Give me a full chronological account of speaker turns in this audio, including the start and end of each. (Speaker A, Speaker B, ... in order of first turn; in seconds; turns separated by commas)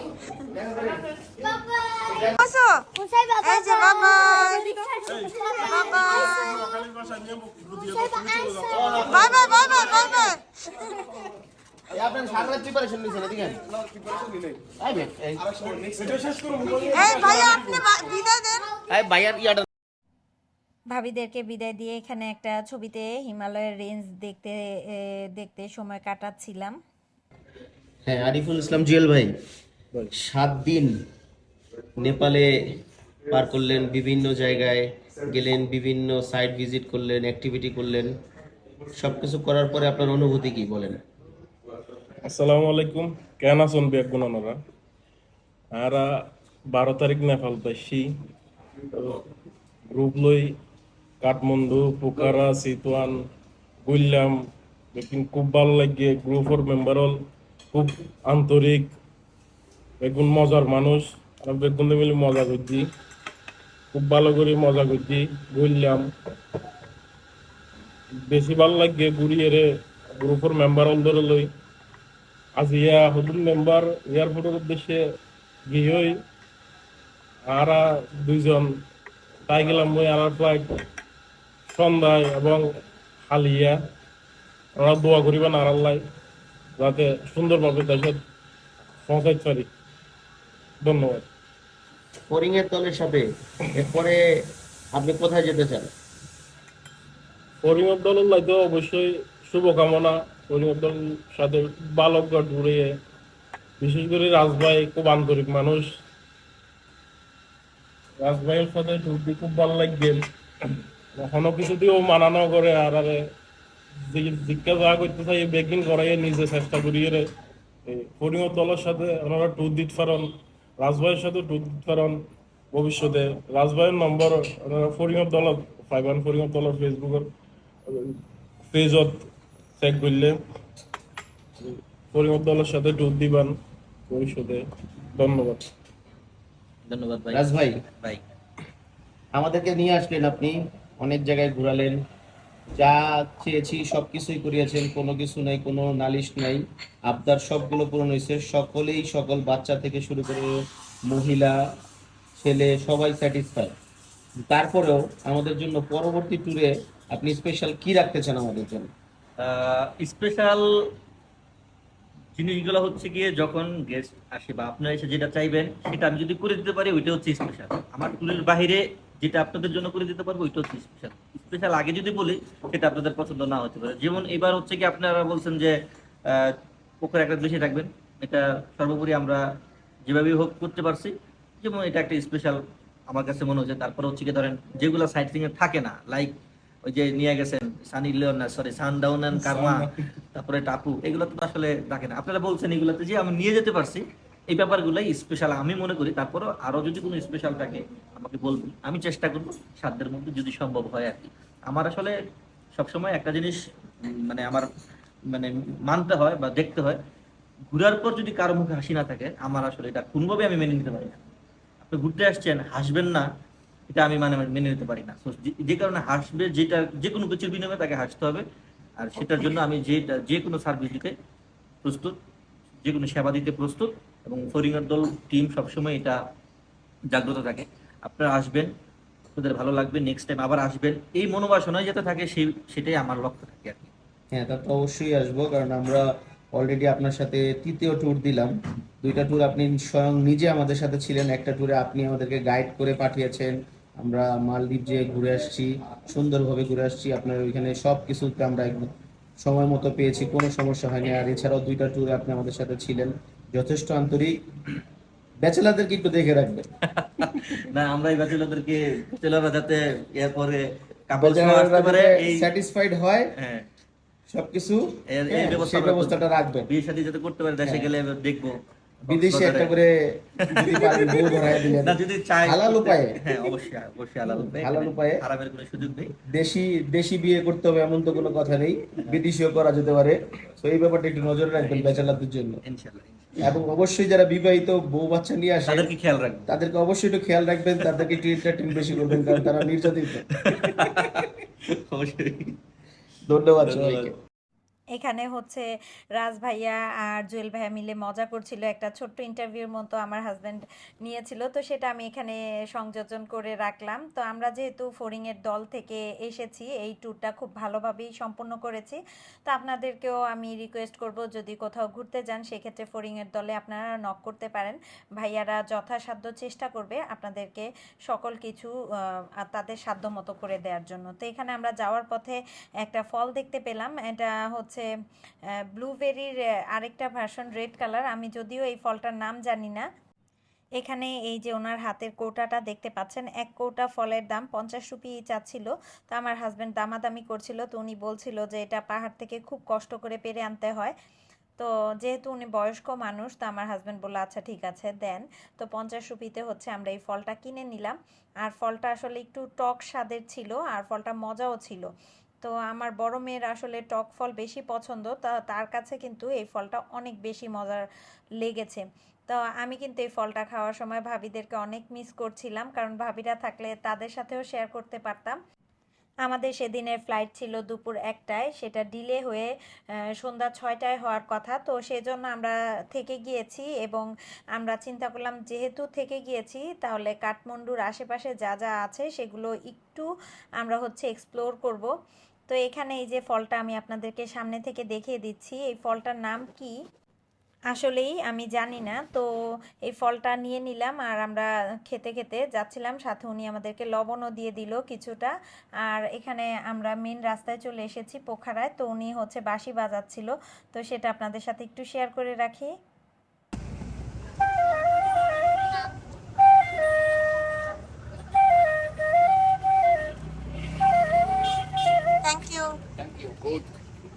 Speaker A: 0.4-1.1, Speaker A: 2.0-2.4, Speaker B: 2.4-4.8, Speaker C: 5.2-5.5, Speaker B: 5.5-6.8, Speaker C: 6.4-8.8, Speaker A: 8.7-10.3, Speaker B: 9.0-10.4, Speaker A: 11.9-13.7, Speaker A: 14.6-16.9, Speaker B: 16.9-18.7, Speaker A: 18.9-19.6, Speaker D: 20.9-26.8, Speaker A: 28.1-29.3, Speaker A: 30.1-30.9, Speaker A: 32.0-32.5, Speaker A: 33.3-38.1, Speaker A: 39.0-41.0, Speaker C: 42.2-44.6, Speaker C: 45.7-48.1, Speaker C: 48.9-49.2, Speaker C: 49.9-50.6, Speaker C: 51.2-53.3, Speaker C: 53.9-58.9, Speaker C: 60.0-62.9, Speaker C: 63.9-66.1, Speaker C: 68.2-71.5, Speaker C: 72.6-75.0, Speaker C: 75.7-76.2, Speaker C: 77.5-78.8, Speaker C: 79.5-80.7, Speaker C: 81.7-82.7, Speaker C: 83.3-83.8, Speaker C: 84.8-86.0, Speaker C: 86.8-88.2, Speaker C: 89.1-89.7, Speaker C: 90.8-91.2, Speaker A: 92.3-94.2, Speaker A: 94.9-95.9, Speaker C: 97.6-103.0, Speaker C: 103.8-105.9, Speaker C: 108.2-113.2, Speaker C: 114.1-117.3, Speaker C: 117.9-122.2, Speaker C: 122.7-127.3, Speaker C: 127.9-128.2, Speaker C: 128.7-129.2, Speaker C: 129.8-130.4, Speaker C: 131.6-133.5, Speaker C: 134.1-135.6, Speaker E: 136.9-137.5, Speaker A: 137.3-137.8, Speaker A: 139.3-142.0, Speaker A: 142.8-151.6, Speaker A: 152.4-153.7, Speaker A: 154.5-158.9, Speaker E: 159.4-160.7, Speaker E: 162.4-175.8, Speaker E: 176.3-179.4, Speaker E: 180.1-202.1, Speaker C: 189.4-189.8, Speaker E: 202.8-204.7, Speaker E: 205.3-207.0, Speaker E: 207.7-211.2, Speaker E: 211.8-213.3, Speaker E: 213.9-218.4, Speaker E: 219.0-221.2, Speaker E: 221.8-222.2, Speaker E: 222.8-226.2, Speaker E: 227.1-228.7, Speaker E: 229.4-233.9, Speaker A: 234.3-254.4, Speaker A: 255.4-256.7, Speaker E: 257.0-262.5, Speaker A: 261.2-263.3, Speaker E: 263.4-263.7, Speaker A: 264.3-266.7, Speaker E: 265.1-269.8, Speaker A: 267.6-267.9, Speaker A: 269.1-273.3, Speaker E: 270.4-276.1, Speaker A: 274.3-275.2, Speaker A: 276.3-282.6, Speaker E: 281.6-283.5, Speaker A: 283.4-285.9, Speaker E: 285.6-286.5, Speaker A: 286.5-290.3, Speaker E: 287.8-292.5, Speaker A: 293.3-294.1, Speaker E: 293.6-294.1, Speaker D: 294.9-324.9, Speaker D: 325.7-329.9, Speaker D: 330.8-340.9, Speaker D: 341.6-351.9, Speaker D: 352.4-357.9, Speaker D: 358.4-365.4, Speaker D: 366.2-369.5, Speaker D: 370.2-380.1, Speaker D: 380.6-381.9, Speaker D: 382.5-386.8, Speaker D: 387.7-389.3, Speaker D: 389.9-402.7, Speaker B: 412.2-412.8